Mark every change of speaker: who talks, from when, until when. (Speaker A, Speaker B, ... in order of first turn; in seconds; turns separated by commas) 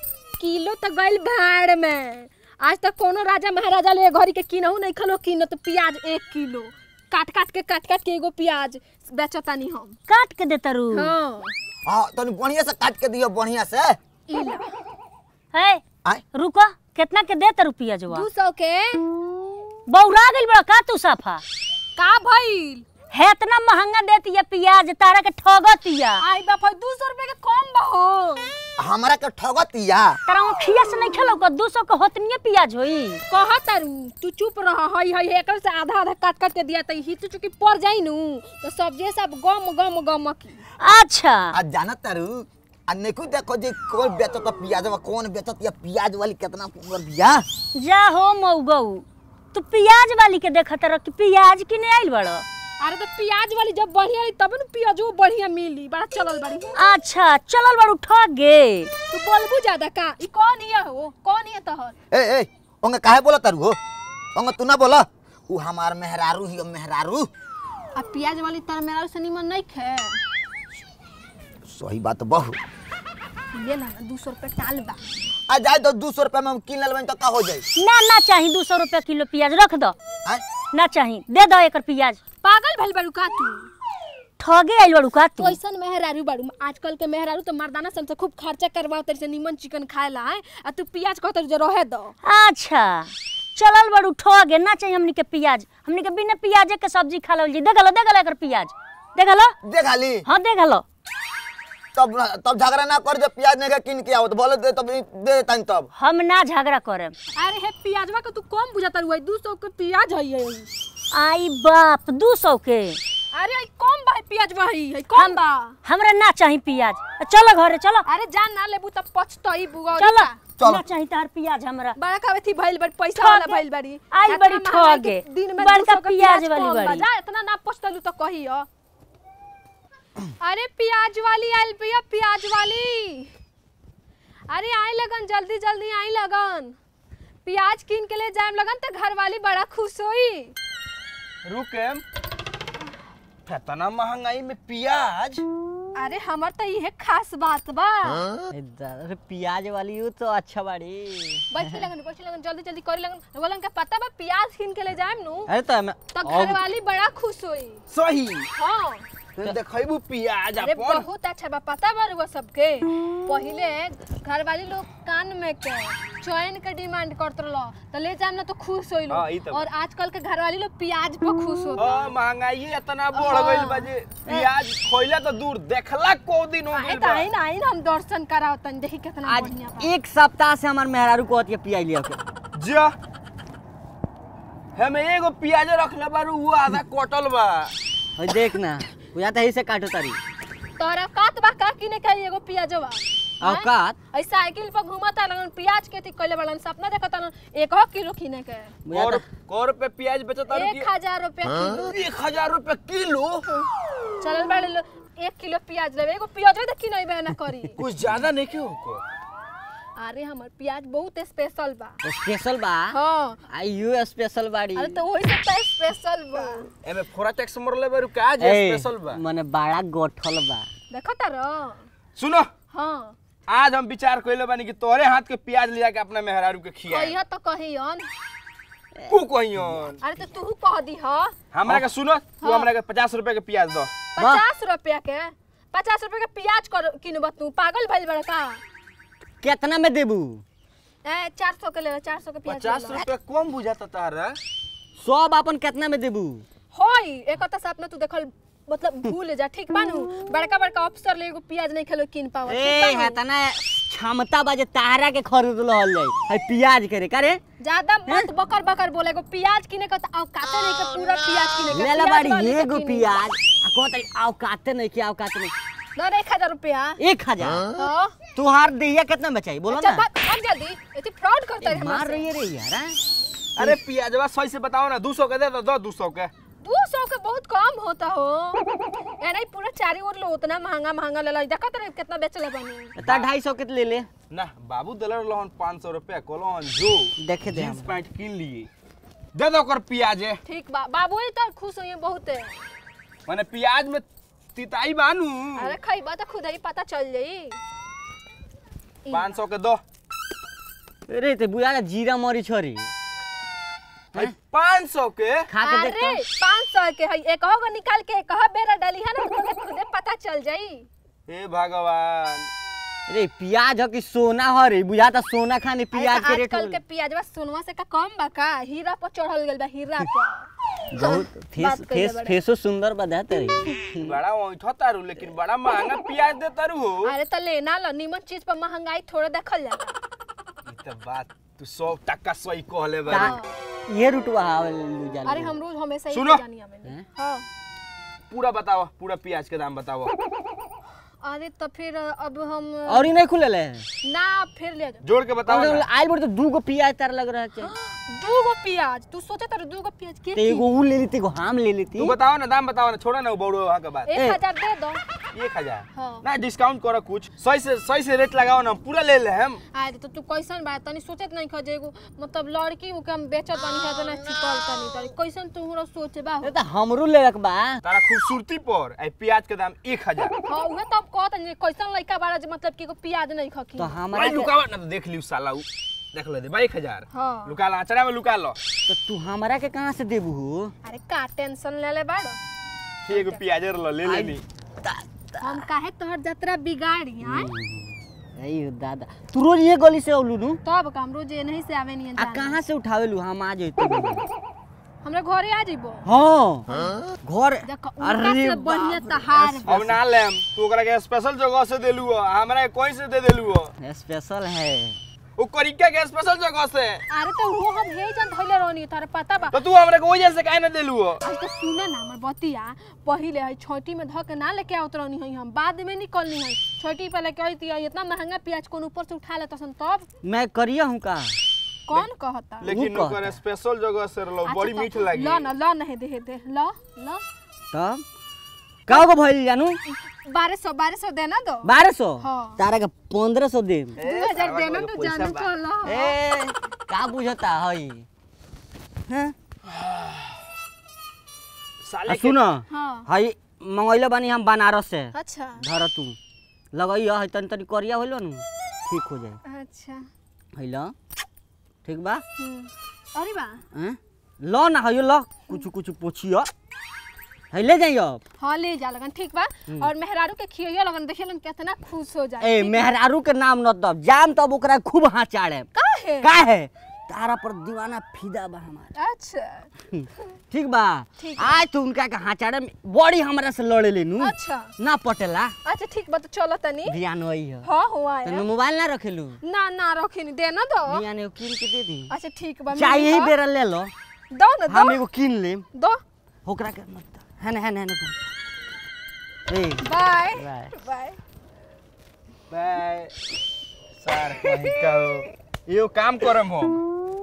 Speaker A: 0.4-9.9, Speaker B: 10.1-11.1, Speaker A: 10.9-11.5, Speaker C: 11.8-14.0, Speaker A: 14.3-14.7, Speaker B: 15.5-15.8, Speaker B: 16.3-18.3, Speaker A: 18.1-19.0, Speaker B: 19.9-21.4, Speaker A: 21.9-22.8, Speaker B: 23.1-26.2, Speaker A: 26.2-28.5, Speaker C: 28.8-30.2, Speaker B: 30.3-33.2, Speaker A: 33.3-40.6, Speaker B: 40.8-41.5, Speaker C: 41.5-47.4, Speaker B: 47.7-52.4, Speaker A: 52.8-56.8, Speaker B: 56.8-58.9, Speaker A: 59.1-61.9, Speaker C: 62.1-63.8, Speaker C: 64.3-67.3, Speaker A: 67.9-70.2, Speaker C: 71.7-72.6, Speaker A: 73.5-75.0, Speaker C: 75.5-77.7, Speaker B: 77.7-79.9, Speaker B: 80.7-82.2, Speaker A: 82.4-83.7, Speaker B: 84.4-85.6, Speaker A: 85.4-92.1, Speaker B: 92.2-99.5, Speaker C: 99.6-100.2, Speaker B: 100.2-100.8, Speaker C: 101.9-105.9, Speaker B: 106.0-107.1, Speaker A: 107.3-110.7, Speaker B: 111.1-113.0, Speaker A: 113.3-115.8, Speaker B: 115.1-118.0, Speaker A: 118.0-120.4, Speaker B: 119.9-122.0, Speaker C: 120.6-120.8, Speaker A: 122.0-128.7, Speaker B: 123.1-127.0, Speaker A: 130.4-133.3, Speaker A: 134.5-136.8, Speaker A: 137.4-140.5, Speaker D: 141.4-142.0, Speaker D: 143.4-145.4, Speaker A: 145.9-148.3, Speaker E: 148.5-151.7, Speaker A: 151.5-155.5, Speaker E: 155.5-156.6, Speaker A: 156.1-157.8, Speaker D: 157.9-158.5, Speaker A: 158.5-159.0, Speaker D: 159.3-161.1, Speaker A: 160.6-172.1, Speaker D: 169.1-169.6, Speaker D: 171.8-177.3, Speaker A: 173.1-174.3, Speaker A: 176.7-179.9, Speaker E: 179.2-182.2, Speaker D: 182.5-182.9, Speaker D: 184.7-187.7, Speaker E: 188.2-190.2, Speaker A: 190.8-198.7, Speaker E: 193.4-194.0, Speaker E: 198.8-199.3, Speaker D: 198.9-200.9, Speaker A: 200.5-202.0, Speaker D: 201.8-203.4, Speaker A: 204.2-207.8, Speaker D: 207.8-209.0, Speaker A: 210.0-212.0, Speaker E: 212.0-213.0, Speaker A: 212.9-213.4, Speaker E: 213.5-215.0, Speaker A: 214.8-216.7, Speaker D: 216.8-219.2, Speaker E: 218.4-220.7, Speaker A: 220.9-221.8, Speaker D: 222.2-222.5, Speaker A: 222.7-223.1, Speaker D: 223.5-227.2, Speaker A: 226.9-228.1, Speaker E: 229.0-229.7, Speaker D: 229.1-230.0, Speaker A: 230.0-231.3, Speaker D: 231.5-233.9, Speaker A: 232.4-232.7, Speaker A: 234.2-238.6, Speaker E: 234.2-234.4, Speaker E: 239.4-240.4, Speaker A: 241.0-243.0, Speaker D: 242.4-244.4, Speaker E: 245.0-246.4, Speaker A: 246.7-253.2, Speaker E: 252.4-257.4, Speaker A: 257.6-263.2, Speaker E: 261.7-265.5, Speaker A: 265.9-267.0, Speaker E: 267.0-267.7, Speaker A: 267.7-268.1, Speaker E: 268.3-270.0, Speaker A: 269.7-272.3, Speaker E: 271.6-273.0, Speaker D: 273.6-276.3, Speaker A: 276.6-278.6, Speaker A: 279.2-282.9, Speaker E: 283.0-284.1, Speaker D: 283.0-283.3, Speaker D: 284.3-288.7, Speaker E: 287.2-287.9, Speaker D: 289.3-290.4, Speaker A: 290.4-292.5, Speaker D: 293.3-295.8, Speaker A: 295.5-297.6, Speaker A: 299.1-299.4, Speaker D: 299.1-299.8, Speaker E: 301.1-302.9, Speaker D: 304.1-305.5, Speaker E: 305.5-306.2, Speaker A: 305.6-310.9, Speaker D: 311.3-312.5, Speaker E: 313.1-316.8, Speaker A: 315.9-322.4, Speaker E: 320.9-324.1, Speaker D: 323.9-327.1, Speaker A: 327.0-330.0, Speaker D: 330.7-333.3, Speaker E: 333.1-333.3, Speaker A: 333.1-333.6, Speaker E: 333.9-335.5, Speaker A: 335.2-337.5, Speaker D: 336.1-336.4, Speaker D: 338.3-340.1, Speaker A: 341.2-343.1, Speaker E: 342.9-343.9, Speaker A: 344.0-345.0, Speaker D: 345.0-345.9, Speaker E: 345.4-347.7, Speaker A: 347.6-350.6, Speaker E: 350.3-352.1, Speaker D: 352.0-354.2, Speaker A: 354.1-355.0, Speaker D: 355.3-359.6, Speaker A: 355.9-356.2, Speaker A: 359.7-366.5, Speaker E: 366.4-367.8, Speaker D: 367.8-370.3, Speaker A: 370.4-373.9, Speaker E: 373.8-374.5, Speaker D: 374.1-378.6, Speaker A: 377.1-377.5, Speaker E: 378.9-380.7, Speaker A: 380.8-382.4, Speaker D: 383.1-384.4, Speaker A: 383.1-383.4, Speaker E: 384.0-385.6, Speaker A: 385.4-387.5, Speaker E: 387.2-390.6, Speaker A: 390.6-392.6, Speaker E: 392.1-394.3, Speaker A: 395.0-396.1, Speaker E: 396.0-400.0, Speaker A: 397.6-399.8, Speaker D: 399.6-403.7, Speaker E: 403.8-405.0, Speaker D: 405.4-407.0, Speaker A: 407.1-409.6, Speaker D: 409.5-411.2, Speaker A: 411.2-420.1, Speaker E: 420.2-421.4, Speaker A: 421.9-422.7, Speaker D: 422.6-425.5, Speaker E: 422.6-423.4, Speaker A: 424.4-427.2, Speaker E: 427.7-428.0, Speaker E: 428.9-429.8, Speaker A: 429.9-432.6, Speaker E: 431.6-434.0, Speaker D: 433.9-435.5, Speaker A: 434.0-436.1, Speaker E: 435.8-438.1, Speaker E: 439.1-439.3, Speaker D: 439.6-440.4, Speaker D: 441.8-442.4, Speaker E: 442.1-446.1, Speaker A: 442.7-443.1, Speaker A: 445.1-445.6, Speaker E: 446.7-449.4, Speaker A: 449.4-450.1, Speaker E: 450.5-450.9, Speaker E: 451.8-452.2, Speaker A: 452.4-453.6, Speaker E: 453.7-456.5, Speaker E: 457.5-458.2, Speaker A: 458.4-462.9, Speaker E: 462.4-465.7, Speaker A: 465.7-466.3, Speaker E: 466.2-468.9, Speaker A: 468.9-469.7, Speaker E: 469.9-475.5, Speaker A: 471.2-471.6, Speaker A: 474.2-474.7, Speaker A: 475.6-477.0, Speaker E: 476.9-477.7, Speaker A: 477.6-478.4, Speaker E: 478.2-479.4, Speaker A: 479.4-481.0, Speaker E: 480.9-482.1, Speaker A: 482.1-483.3, Speaker E: 482.7-483.9, Speaker A: 484.3-485.0, Speaker E: 484.7-485.6, Speaker A: 485.7-486.0, Speaker E: 486.4-488.1, Speaker E: 489.5-489.8, Speaker A: 489.8-491.2, Speaker E: 490.3-490.7, Speaker D: 492.5-493.1, Speaker D: 494.0-496.8